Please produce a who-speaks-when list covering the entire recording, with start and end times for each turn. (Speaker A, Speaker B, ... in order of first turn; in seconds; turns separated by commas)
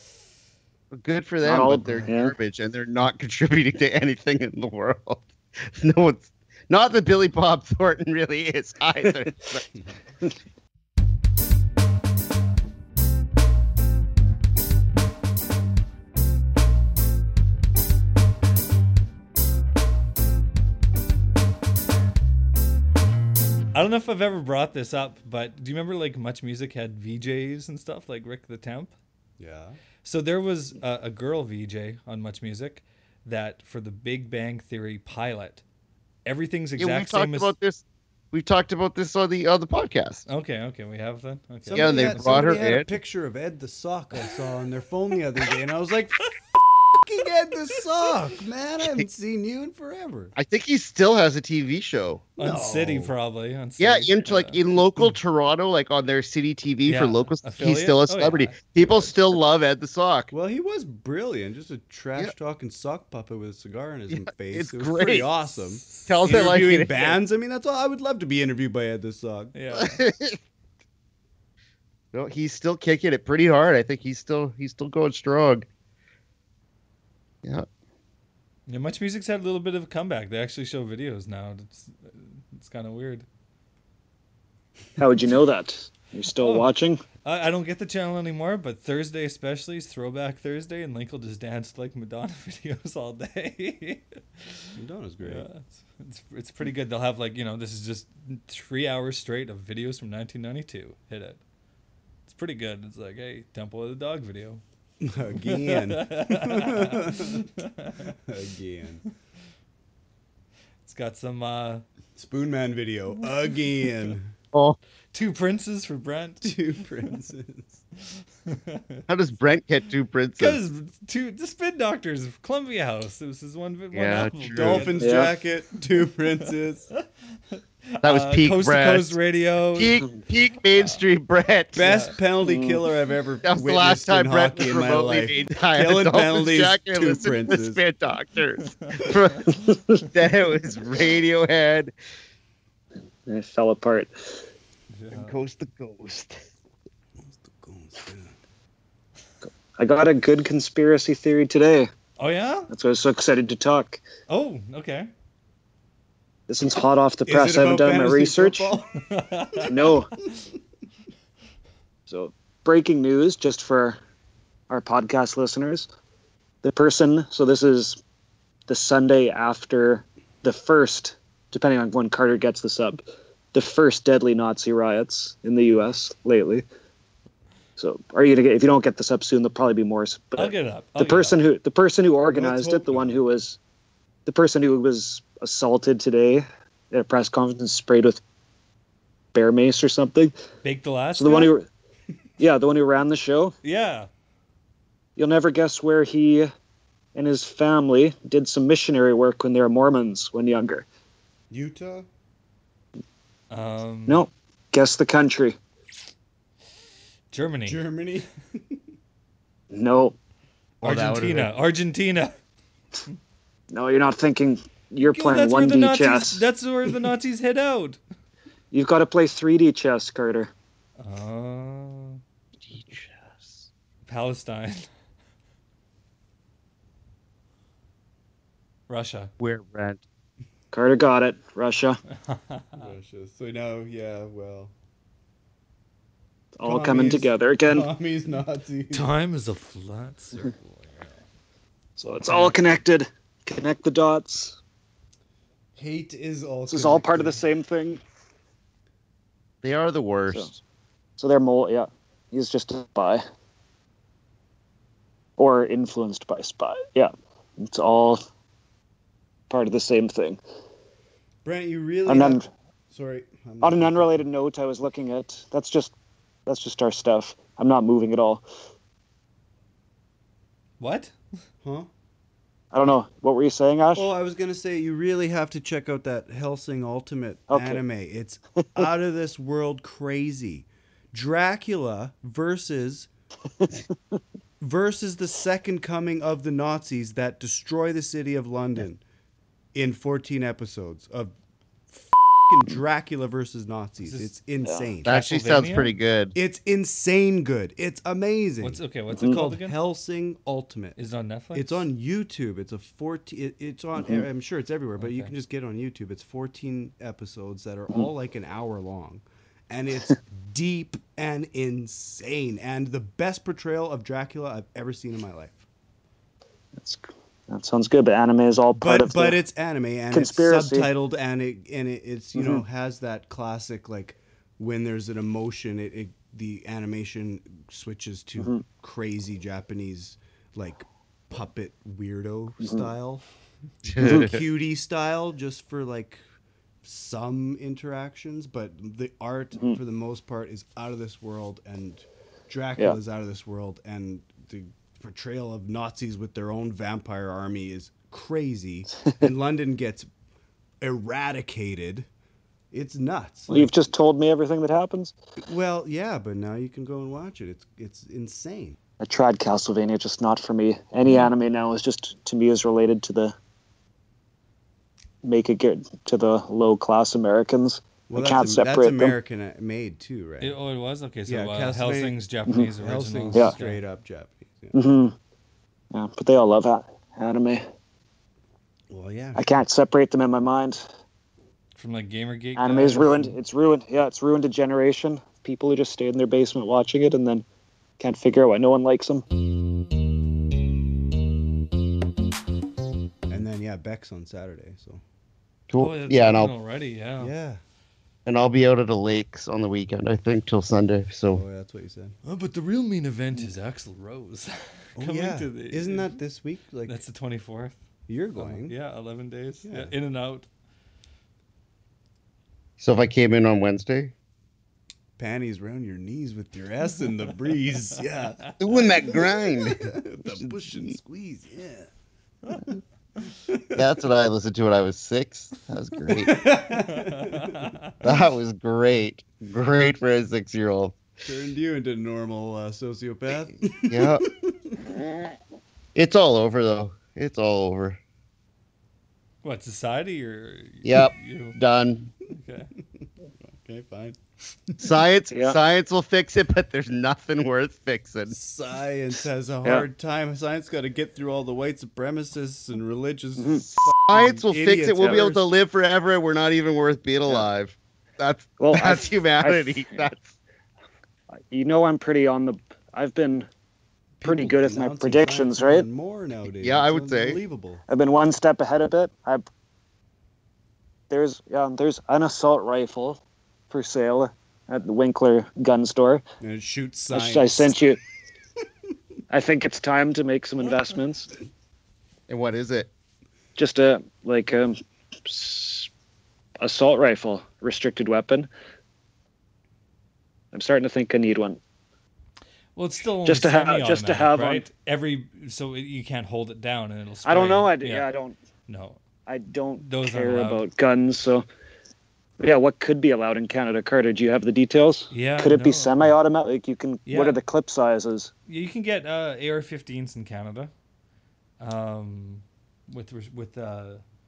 Speaker A: 0.9-9.7, Speaker B: 1.4-2.4, Speaker C: 23.7-28.9, Speaker D: 29.4-29.8, Speaker C: 30.0-35.6, Speaker C: 36.2-37.5, Speaker A: 36.8-40.2, Speaker C: 40.3-42.6, Speaker D: 41.6-46.4, Speaker A: 41.8-42.9, Speaker D: 46.9-50.3, Speaker A: 50.4-52.3, Speaker C: 52.4-54.6, Speaker D: 52.4-53.1, Speaker A: 53.8-60.3, Speaker C: 56.9-59.1, Speaker D: 60.3-69.5, Speaker A: 64.1-65.3, Speaker C: 65.8-67.2, Speaker A: 66.1-67.1, Speaker C: 69.5-70.0, Speaker A: 69.8-70.4, Speaker A: 72.1-75.7, Speaker C: 78.7-83.3, Speaker B: 85.0-87.0, Speaker C: 86.4-86.7, Speaker C: 87.2-94.7, Speaker D: 94.8-95.5, Speaker C: 95.2-101.4, Speaker C: 102.3-104.6, Speaker D: 105.0-107.5, Speaker C: 105.4-108.0, Speaker D: 108.0-109.0, Speaker C: 110.8-111.8, Speaker D: 112.2-114.3, Speaker A: 114.5-114.8, Speaker C: 115.1-116.5, Speaker D: 116.4-117.8, Speaker C: 118.5-119.0, Speaker A: 119.1-120.6, Speaker C: 120.4-125.2, Speaker A: 123.9-125.0, Speaker D: 124.5-126.9, Speaker B: 125.0-125.3, Speaker C: 127.9-130.0, Speaker A: 128.0-129.2, Speaker A: 129.8-131.9, Speaker C: 130.7-131.0, Speaker D: 131.7-137.8, Speaker C: 131.8-132.1, Speaker B: 132.4-132.8, Speaker A: 133.4-141.9, Speaker C: 138.6-139.6, Speaker B: 143.3-144.4, Speaker C: 144.9-145.4, Speaker A: 145.1-146.4, Speaker D: 147.2-148.3, Speaker B: 149.8-151.9, Speaker C: 152.2-152.7, Speaker B: 152.7-154.0, Speaker C: 154.3-155.1, Speaker B: 156.5-158.7, Speaker D: 157.3-159.9, Speaker C: 159.0-159.9, Speaker B: 159.7-160.1, Speaker B: 162.1-164.0, Speaker B: 164.7-165.9, Speaker B: 166.6-168.0, Speaker B: 168.7-173.0, Speaker B: 173.5-176.6, Speaker B: 177.8-183.6, Speaker C: 180.4-181.4, Speaker D: 182.3-183.2, Speaker B: 184.3-188.2, Speaker B: 189.3-190.3, Speaker C: 190.6-191.5, Speaker B: 191.2-191.7, Speaker B: 192.4-193.6, Speaker C: 193.6-194.1, Speaker B: 195.2-196.5, Speaker B: 197.2-200.9, Speaker D: 201.5-202.1, Speaker C: 203.5-204.3, Speaker B: 204.1-205.6, Speaker C: 207.3-207.8, Speaker D: 207.7-208.8, Speaker B: 209.7-210.2, Speaker A: 210.8-211.6, Speaker C: 210.8-212.3, Speaker B: 213.7-216.4, Speaker C: 215.1-218.0, Speaker B: 218.7-220.5, Speaker C: 221.0-222.2, Speaker A: 222.7-223.7, Speaker C: 224.1-224.9, Speaker C: 228.9-229.3, Speaker A: 229.4-230.0, Speaker B: 230.7-232.0, Speaker C: 232.2-232.9, Speaker D: 232.8-234.7, Speaker B: 236.6-237.9, Speaker D: 236.7-239.1, Speaker C: 238.9-241.2, Speaker B: 242.0-244.6, Speaker C: 242.3-242.5, Speaker D: 245.8-247.4, Speaker B: 246.7-248.0, Speaker A: 249.6-250.6, Speaker B: 251.2-253.2, Speaker B: 255.4-258.2, Speaker B: 259.5-260.4, Speaker D: 261.4-262.4, Speaker B: 262.1-262.5, Speaker D: 262.9-264.2, Speaker B: 263.6-265.9, Speaker B: 266.5-268.4, Speaker C: 270.8-271.2, Speaker D: 271.6-271.9, Speaker B: 272.7-274.1, Speaker D: 274.0-283.1, Speaker B: 277.5-277.8, Speaker B: 283.6-284.2, Speaker D: 284.6-289.0, Speaker D: 289.7-291.3, Speaker D: 291.9-295.1, Speaker C: 294.0-294.3, Speaker B: 294.6-294.9, Speaker C: 295.0-295.9, Speaker A: 295.0-296.4, Speaker D: 296.4-301.0, Speaker C: 298.6-299.8, Speaker C: 301.0-301.9, Speaker D: 301.5-315.6, Speaker B: 304.0-304.2, Speaker C: 305.0-305.3, Speaker B: 316.8-319.4, Speaker D: 318.8-333.2, Speaker B: 320.1-320.9, Speaker B: 322.4-322.6, Speaker B: 332.6-332.9, Speaker D: 333.8-336.2, Speaker A: 333.9-334.4, Speaker B: 334.0-334.3, Speaker D: 336.8-350.1, Speaker D: 350.8-352.1, Speaker D: 352.7-353.7, Speaker B: 353.5-355.1, Speaker D: 355.4-358.8, Speaker B: 359.0-363.3, Speaker B: 365.2-369.2, Speaker D: 368.1-370.6, Speaker C: 370.4-373.8, Speaker D: 371.3-372.2, Speaker D: 372.8-374.8, Speaker B: 374.7-375.1, Speaker B: 375.9-377.6, Speaker D: 378.9-379.5, Speaker B: 379.4-380.9, Speaker C: 381.8-383.3, Speaker B: 382.6-387.4, Speaker B: 388.0-389.2, Speaker D: 393.3-395.0, Speaker A: 395.7-396.5, Speaker C: 395.8-397.3, Speaker D: 397.2-397.6, Speaker A: 398.3-401.4, Speaker D: 401.3-402.2, Speaker C: 402.2-406.2, Speaker D: 405.0-407.0, Speaker C: 406.9-407.8, Speaker D: 408.1-408.8, Speaker C: 408.4-410.5, Speaker D: 409.6-409.9, Speaker A: 412.8-414.1, Speaker D: 415.2-418.5, Speaker A: 418.6-421.0, Speaker D: 419.1-421.9, Speaker D: 423.5-423.8, Speaker A: 423.8-426.4, Speaker D: 426.1-427.7, Speaker C: 426.7-428.0, Speaker A: 428.0-431.0, Speaker D: 431.2-434.8, Speaker A: 433.9-434.3, Speaker A: 435.9-438.0, Speaker C: 439.4-441.6, Speaker A: 440.8-442.1, Speaker C: 442.3-442.7, Speaker D: 443.0-444.2, Speaker D: 444.7-445.0, Speaker A: 444.8-448.4, Speaker D: 448.3-455.4, Speaker B: 453.4-453.6, Speaker A: 453.8-460.3, Speaker B: 458.6-460.1, Speaker B: 461.5-463.5, Speaker D: 464.2-467.8, Speaker B: 464.2-465.9, Speaker A: 466.6-467.4, Speaker B: 467.9-469.4, Speaker B: 471.1-476.2, Speaker D: 476.4-477.8, Speaker B: 477.1-478.0, Speaker B: 479.3-481.3, Speaker A: 482.3-482.9, Speaker B: 483.6-485.9, Speaker B: 486.6-488.5, Speaker B: 490.5-491.6, Speaker C: 492.8-498.1, Speaker B: 493.3-494.7, Speaker B: 497.2-498.4, Speaker C: 498.7-499.0, Speaker B: 499.3-501.4, Speaker C: 499.8-500.6, Speaker B: 502.4-508.3, Speaker C: 505.1-506.1, Speaker C: 507.1-507.4, Speaker C: 508.5-510.7, Speaker C: 511.6-514.0